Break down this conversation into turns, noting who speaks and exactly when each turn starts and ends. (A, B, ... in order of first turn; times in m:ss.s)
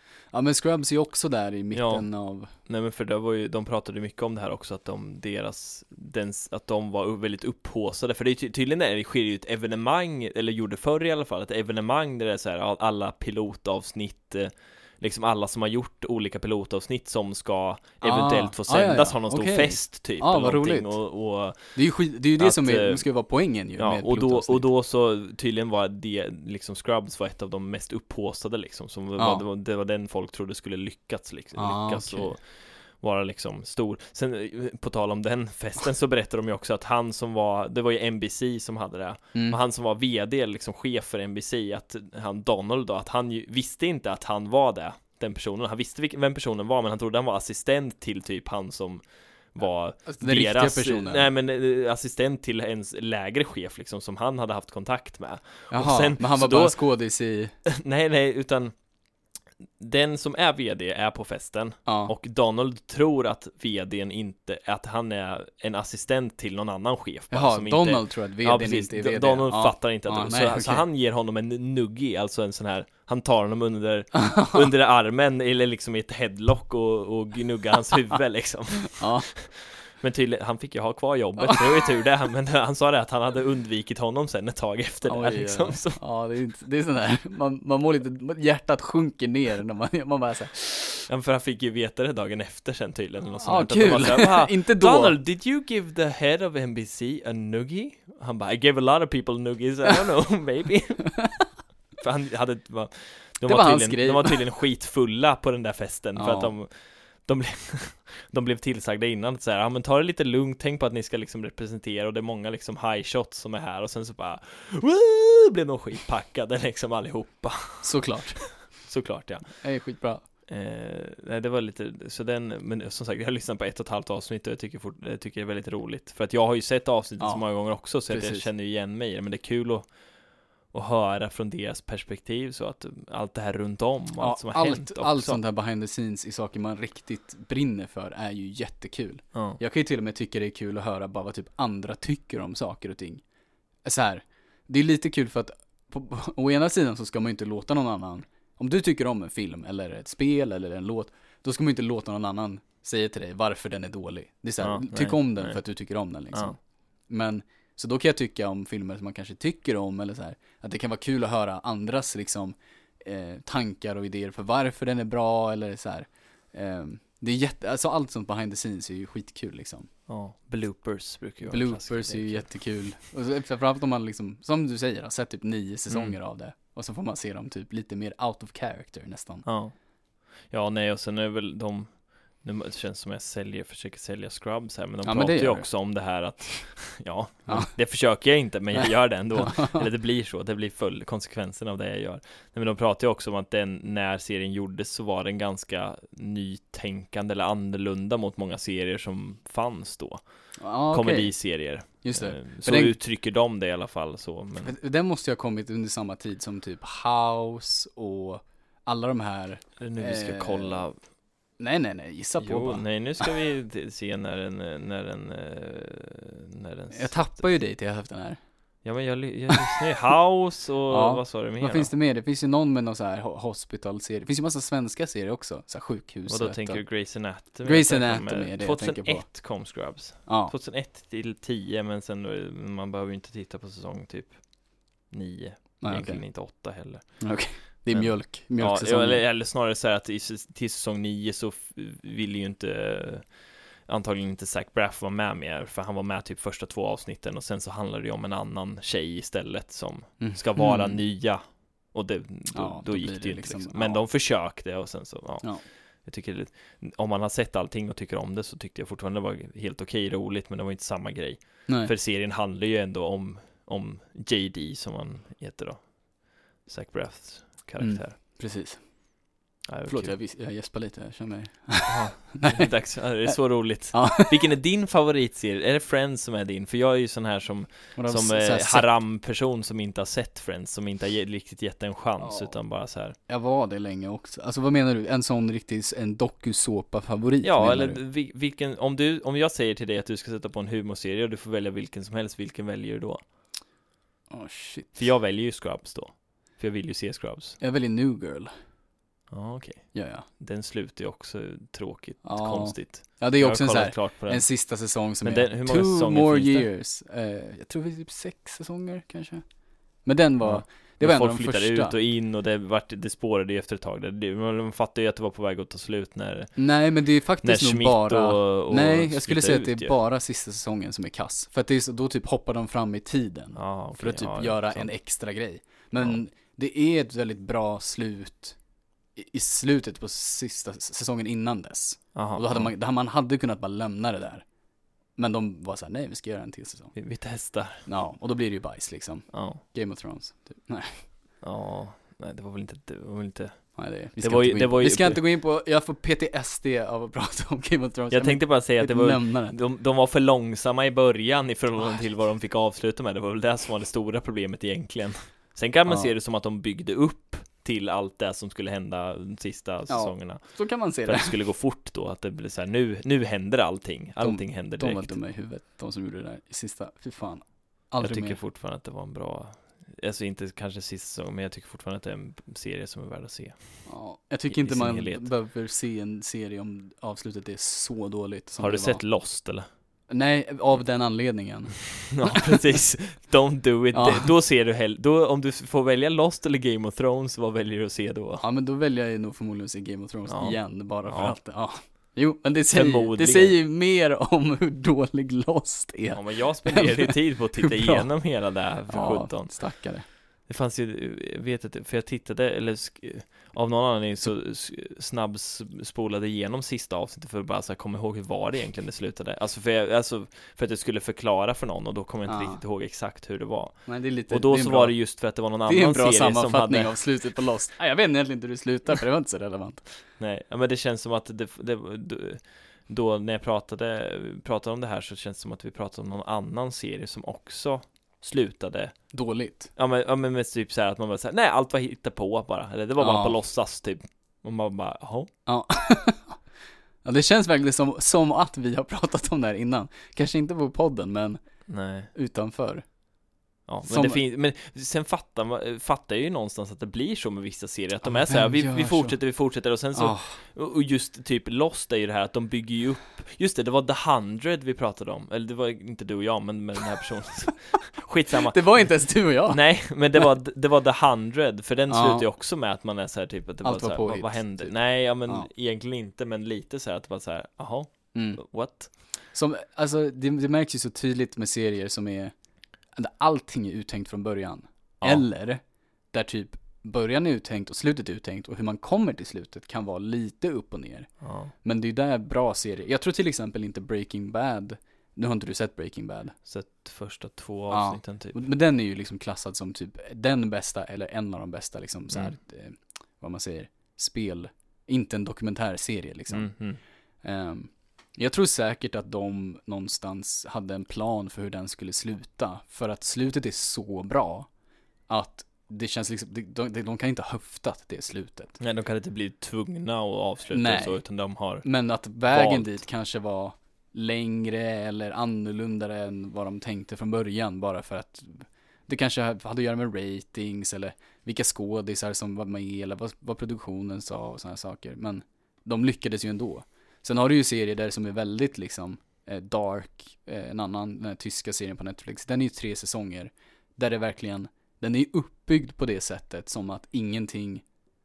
0:00.3-0:02.5 A
0:01.7-0:21.8 B
0:18.0-0:21.0 A
0:21.6-0:24.7 A
0:22.4-0:23.0 B
0:23.8-0:56.8 B
0:29.2-0:29.4 A
0:31.6-0:32.4 A
0:50.0-0:51.3 A
0:55.7-0:57.5 A
0:57.6-0:58.7 B
0:59.8-1:26.0 B
1:01.9-1:02.1 A
1:07.3-1:10.9 A
1:14.2-1:14.6 A
1:18.9-1:19.3 A
1:25.1-1:30.9 A
1:31.1-1:41.3 B
1:33.4-1:35.2 A
1:42.0-1:58.1 B
1:43.4-1:44.4 A
1:46.2-1:46.5 A
1:57.8-1:58.6 A
1:58.6-1:59.5 B
1:59.6-2:00.2 A
2:00.5-2:09.9 B
2:07.2-2:08.5 A
2:10.7-2:15.4 B
2:14.2-2:23.2 A
2:19.3-2:19.6 B
2:23.8-2:36.6 A
2:34.6-2:35.6 B
2:37.1-2:49.9 A
2:50.1-2:52.5 B
2:51.4-2:59.4 A
2:55.9-2:56.2 B
2:59.4-2:59.7 B
3:00.4-3:20.2 B
3:05.0-3:05.7 A
3:07.5-3:07.7 A
3:09.4-3:09.8 A
3:20.6-3:23.0 A
3:20.9-3:24.7 B
3:24.6-3:30.8 A
3:29.8-3:31.0 B
3:31.6-3:32.9 A
3:32.4-3:37.3 B
3:36.9-3:38.4 A
3:38.8-3:41.9 B
3:40.9-3:46.9 A
3:46.3-3:54.4 B
3:47.6-3:49.3 A
3:50.2-3:50.5 A
3:55.0-4:03.3 B
3:55.8-3:56.2 A
3:57.2-3:59.2 A
4:03.9-4:28.2 B
4:10.2-4:11.0 A
4:12.5-4:14.0 A
4:21.7-4:21.9 A
4:27.8-4:28.9 A
4:29.7-4:30.2 B
4:29.9-4:33.4 A
4:31.9-4:43.2 B
4:33.9-4:34.4 A
4:37.9-4:38.9 A
4:42.2-4:42.5 A
4:43.3-4:48.0 A
4:47.4-4:53.2 B
4:54.3-4:55.0 A
4:54.9-4:57.6 B
4:57.6-4:58.5 A
4:59.3-5:04.5 B
4:59.9-5:00.3 A
5:02.2-5:09.5 A
5:05.2-5:06.7 B
5:10.0-5:12.0 A
5:10.4-5:16.6 B
5:16.6-5:28.6 A
5:17.4-5:19.9 B
5:23.6-5:24.9 B
5:29.2-5:34.4 A
5:32.1-5:32.7 B
5:35.2-5:37.0 A
5:36.9-5:37.9 B
5:37.8-5:41.1 A
5:39.3-5:39.6 B
5:41.4-5:45.2 B
5:43.8-5:49.6 A
5:48.1-6:05.2 B
5:59.9-6:01.3 A
6:04.2-6:08.4 A
6:08.0-6:13.9 B
6:13.8-6:19.0 A
6:14.5-6:15.3 B
6:18.6-6:19.7 B
6:20.1-6:22.6 A
6:22.1-6:28.4 B
6:23.9-6:24.3 A
6:28.4-6:38.1 A
6:30.3-6:31.4 B
6:32.7-6:33.6 B
6:36.1-6:39.8 B
6:38.9-6:40.0 A
6:40.4-6:57.0 B
6:52.2-6:52.6 A
6:53.9-6:55.0 A
6:55.6-6:59.9 A
7:00.2-7:09.0 B
7:09.1-7:09.7 A
7:09.8-7:15.3 B
7:13.0-7:13.4 A
7:15.4-7:16.4 A
7:17.0-7:21.4 A
7:21.7-7:22.1 B
7:22.1-7:22.8 A
7:23.7-7:39.0 B
7:23.8-7:24.2 A
7:28.0-7:29.2 A
7:29.9-7:30.4 A
7:38.3-7:39.9 A
7:39.5-7:49.0 B
7:41.9-7:42.2 A
7:43.6-7:45.5 A
7:48.1-7:48.8 A
7:49.3-7:52.3 A
7:52.9-8:06.4 A
8:01.2-8:01.5 B
8:06.4-8:08.4 B
8:07.7-8:16.5 A
8:12.1-8:12.4 B
8:16.3-8:16.8 B
8:17.2-8:24.5 A
8:25.1-8:28.6 A
8:28.6-8:31.7 B
8:30.5-8:31.0 A
8:31.6-8:57.6 A
8:32.2-8:32.8 B